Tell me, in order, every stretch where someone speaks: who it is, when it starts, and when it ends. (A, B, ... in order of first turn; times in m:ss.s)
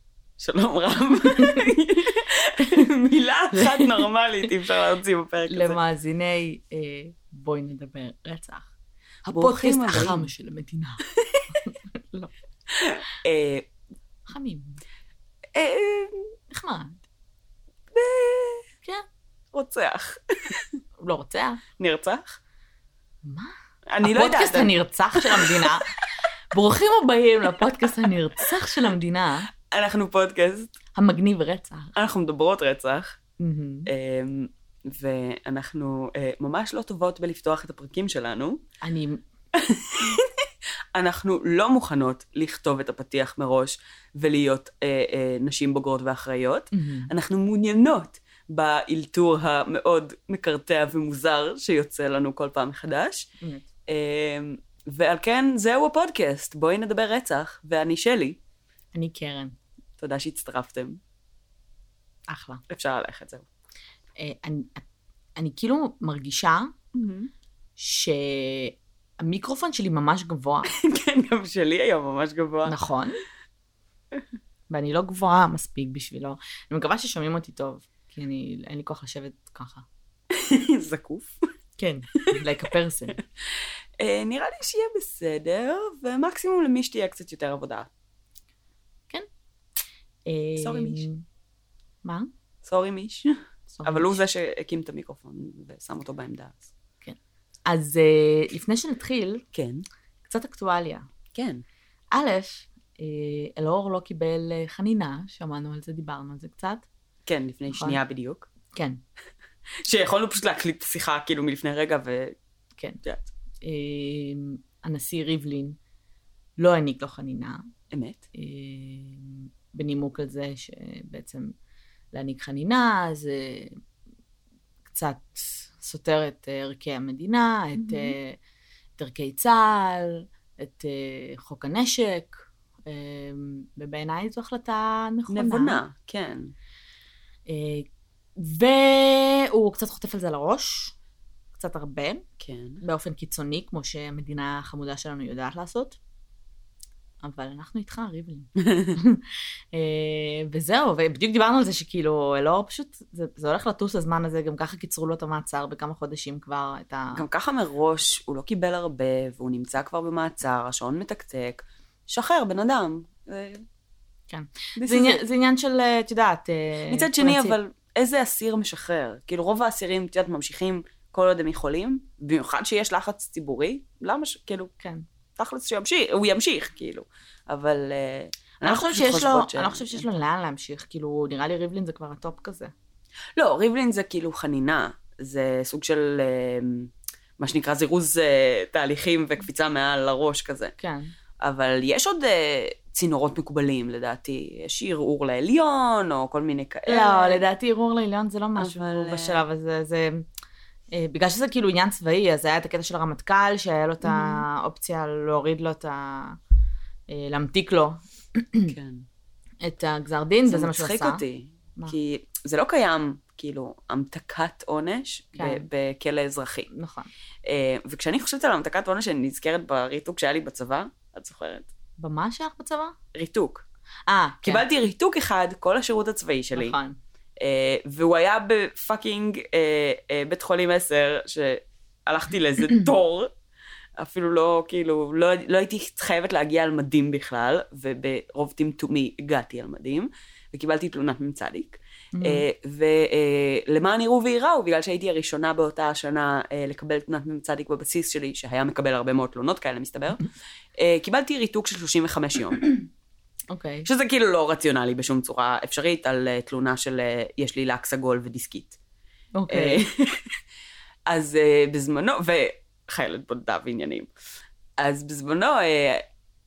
0:00.4-0:05.8 A
0:01.2-0:01.7 B
0:03.5-0:04.1 B
0:05.5-0:08.7 B
0:09.2-0:11.0 B
0:09.3-0:10.3 A
0:11.1-0:11.6 A
0:11.6-0:12.3 B
0:12.7-0:13.7 A
0:14.3-0:14.8 B
0:15.5-0:16.3 A
0:16.5-0:17.0 B
0:17.9-0:18.6 A
0:19.5-0:20.7 A
0:21.0-0:21.6 B
0:21.8-0:22.4 A
0:23.2-0:25.9 B
0:23.9-0:25.9 A
0:26.5-0:29.5 B
0:29.7-0:30.7 A
0:30.9-0:31.9 B
0:31.9-0:33.2 A
0:33.4-0:33.9 B
0:33.8-0:38.6 A
0:38.8-0:39.2 B
0:39.5-0:53.3 A
0:46.7-0:47.1 B
0:53.4-0:53.7 B
0:53.9-0:58.4 A
0:58.9-0:59.5 B
1:00.0-1:01.0 A
1:02.3-1:02.6 B
1:02.7-1:03.4 A
1:04.2-1:04.8 B
1:05.4-1:06.7 B
1:06.9-1:07.3 A
1:07.8-1:10.7 B
1:10.6-1:12.8 A
1:12.6-1:13.2 B
1:14.7-1:19.8 B
1:20.3-1:21.4 A
1:21.8-1:23.2 B
1:22.1-1:22.4 A
1:24.0-1:27.9 A
1:30.2-1:31.2 B
1:30.6-1:31.0 A
1:32.0-1:32.3 B
1:32.6-1:36.7 A
1:33.7-1:34.2 B
1:37.0-1:39.4 B
1:39.5-1:39.8 A
1:40.3-1:41.0 B
1:41.3-1:41.6 A
1:42.1-1:46.8 B
1:47.2-1:48.5 A
1:47.7-1:48.0 B
1:48.7-1:49.0 B
1:49.8-1:52.3 A
1:53.0-1:53.3 A
1:53.6-1:55.8 B
1:56.6-1:57.6 B
1:57.9-1:58.2 A
1:58.3-2:01.5 B
2:02.1-2:03.8 B
2:04.9-2:08.4 B
2:07.7-2:08.1 A
2:09.0-2:15.8 B
2:15.3-2:16.5 A
2:17.5-2:20.9 B
2:21.5-2:22.2 B
2:22.4-2:22.8 A
2:22.8-2:26.0 B
2:27.2-2:37.2 B
2:28.6-2:29.0 A
2:37.1-2:43.6 A
2:44.3-2:47.6 B
2:44.8-2:45.2 A
2:46.9-2:54.7 A
2:54.8-2:55.0 B
2:55.4-3:00.0 A
2:58.6-3:02.7 B
3:03.4-3:10.7 A
3:10.8-3:11.1 B
3:11.4-3:17.4 A
3:16.9-3:20.3 B
3:18.6-3:19.4 A
3:20.9-3:26.4 B
3:24.0-3:24.4 A
3:27.1-3:28.7 B
3:28.7-3:29.0 A
3:29.6-3:31.2 B
3:30.5-3:36.7 A
3:35.4-3:35.6 B
3:36.7-3:37.1 B
3:37.4-3:41.7 A
3:42.0-3:42.9 B
3:43.1-3:43.6 A
3:44.1-3:44.6 B
3:44.4-3:46.8 A
3:46.6-3:47.0 B
3:47.4-3:53.3 A
3:54.0-4:12.7 A
4:02.1-4:02.4 B
4:13.5-4:13.9 B
4:13.8-4:18.8 A
4:19.3-4:19.8 B
4:19.5-4:20.3 A
4:21.1-4:24.1 A
4:24.8-4:26.0 A